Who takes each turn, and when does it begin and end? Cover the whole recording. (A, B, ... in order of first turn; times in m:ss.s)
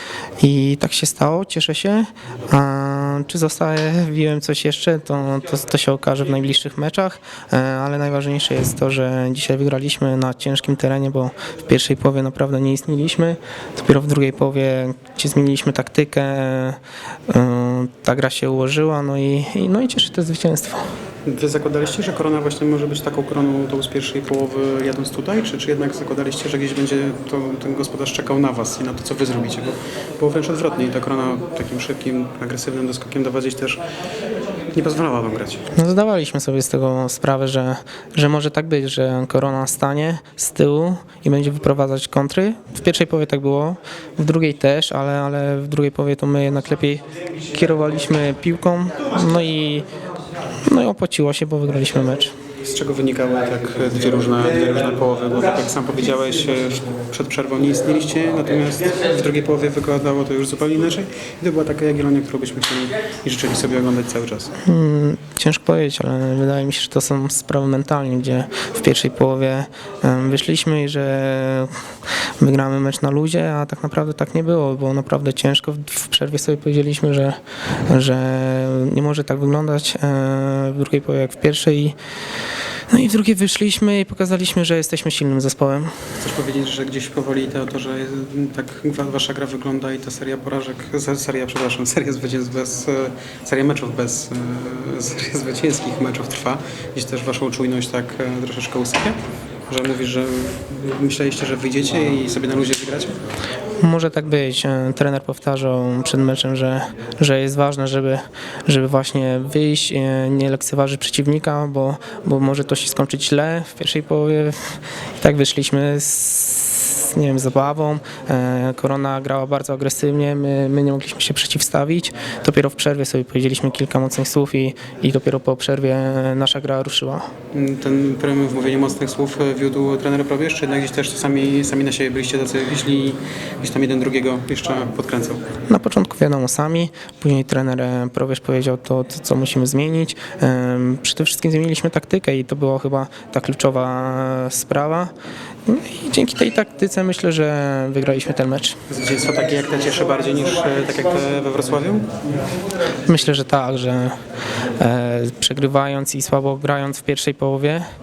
0:00.4-0:20.8 A
0:21.3-0:33.8 B
0:34.7-0:35.7 B
0:35.8-0:49.9 A
0:50.6-0:52.4 A
0:52.6-1:04.5 B
1:04.6-1:11.7 A
1:12.4-1:22.0 A
1:22.9-1:26.1 A
1:26.2-1:39.2 B
1:39.7-1:43.2 B
1:43.8-2:07.3 A
2:07.5-2:15.4 B
2:15.7-2:25.1 A
2:25.7-2:28.8 A
2:28.9-2:32.1 B
2:33.0-2:34.2 A
2:34.8-2:37.8 A